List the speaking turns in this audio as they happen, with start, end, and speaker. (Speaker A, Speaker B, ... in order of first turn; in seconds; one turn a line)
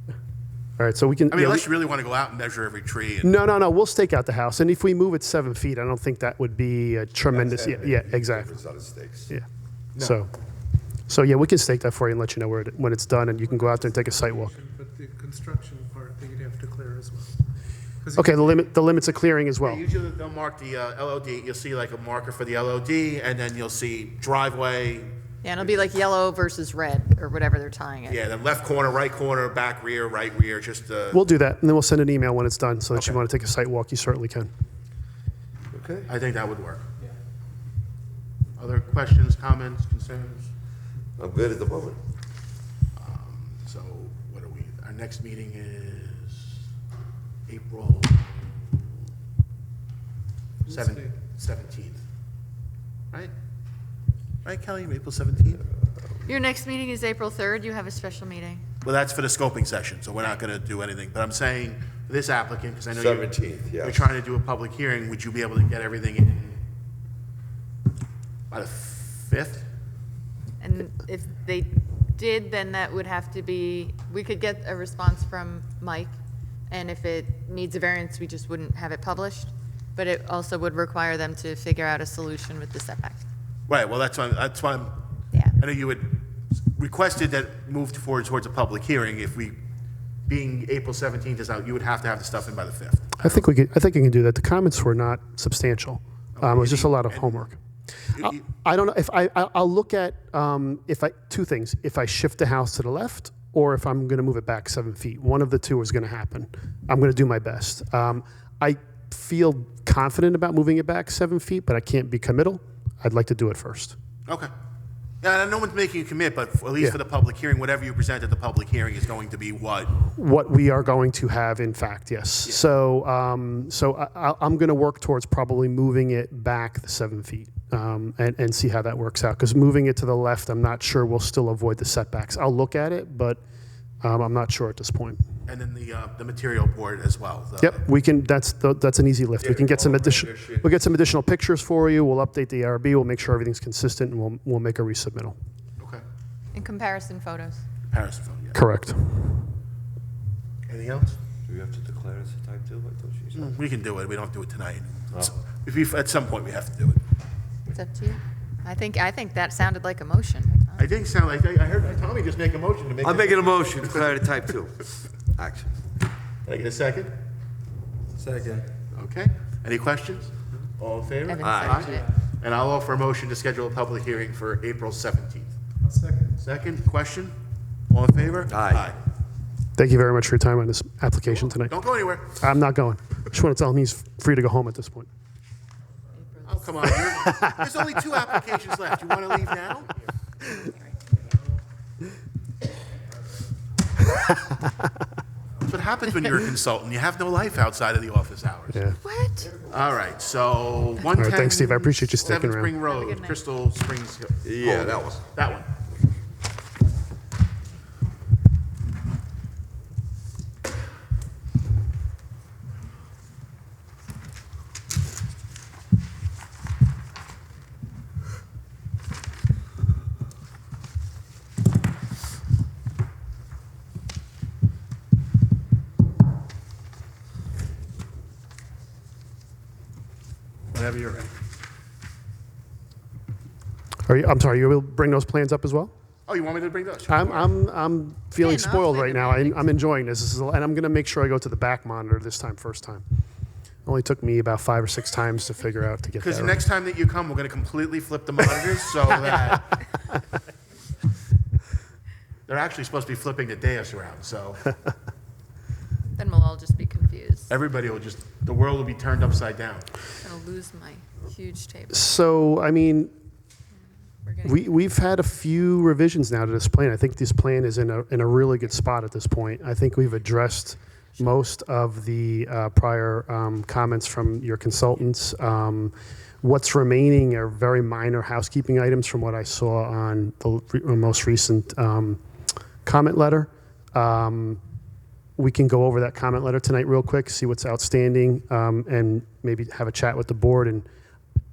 Speaker A: 0.8-1.6
Speaker B: 1.3-3.3
Speaker A: 3.2-8.6
Speaker C: 7.3-9.3
Speaker A: 9.3-10.3
Speaker A: 11.1-14.6
Speaker D: 13.5-17.3
Speaker D: 18.0-18.4
Speaker A: 18.1-19.8
Speaker B: 19.6-25.8
Speaker E: 25.4-28.2
Speaker B: 28.1-31.2
Speaker A: 31.1-34.5
Speaker B: 32.9-33.2
Speaker C: 35.7-36.1
Speaker B: 36.1-36.8
Speaker B: 38.6-40.5
Speaker C: 41.2-42.0
Speaker B: 43.0-46.6
Speaker B: 47.5-48.5
Speaker D: 50.7-51.1
Speaker B: 50.7-52.0
Speaker B: 54.4-55.6
Speaker E: 56.2-58.6
Speaker B: 58.8-66.6
Speaker C: 62.9-64.1
Speaker B: 68.5-69.7
Speaker E: 70.6-76.1
Speaker E: 76.7-83.2
Speaker B: 83.7-85.0
Speaker E: 85.3-85.6
Speaker B: 85.6-89.6
Speaker B: 90.3-93.5
Speaker A: 93.2-114.0
Speaker B: 96.3-97.5
Speaker B: 98.1-98.4
Speaker B: 115.2-120.0
Speaker A: 120.1-133.4
Speaker A: 134.0-135.2
Speaker B: 135.4-137.8
Speaker A: 137.6-145.3
Speaker C: 139.4-140.7
Speaker E: 146.5-147.6
Speaker B: 147.9-148.6
Speaker A: 148.5-149.2
Speaker B: 150.7-151.2
Speaker C: 151.5-153.5
Speaker B: 153.3-157.0
Speaker E: 157.7-160.9
Speaker B: 160.8-164.1
Speaker C: 163.0-165.7
Speaker B: 166.4-167.1
Speaker C: 168.2-168.7
Speaker B: 168.9-175.5
Speaker E: 171.3-172.1
Speaker C: 171.4-171.9
Speaker D: 175.8-176.3
Speaker B: 176.4-177.3
Speaker B: 177.9-179.0
Speaker C: 178.5-178.8
Speaker A: 179.8-181.7
Speaker B: 181.6-182.4
Speaker A: 182.3-185.1
Speaker E: 186.1-186.9
Speaker B: 186.4-189.9
Speaker A: 186.8-187.6
Speaker A: 194.2-194.8
Speaker B: 195.6-198.8
Speaker A: 198.7-199.0
Speaker E: 199.0-199.5
Speaker B: 199.7-201.6
Speaker E: 201.1-202.0
Speaker A: 201.2-202.7
Speaker B: 202.2-205.7
Speaker E: 202.8-203.4
Speaker C: 204.4-205.2
Speaker B: 230.7-231.3
Speaker A: 234.1-235.9
Speaker B: 236.3-237.5
Speaker A: 237.1-243.0
Speaker E: 238.4-239.7
Speaker A: 243.8-246.6
Speaker B: 246.2-249.7
Speaker B: 252.5-254.7
Speaker E: 256.1-257.5
Speaker B: 257.5-259.9
Speaker E: 260.2-262.2
Speaker A: 261.9-263.1
Speaker E: 264.2-264.8
Speaker A: 264.4-282.2
Speaker A: 282.8-284.6
Speaker A: 285.4-290.8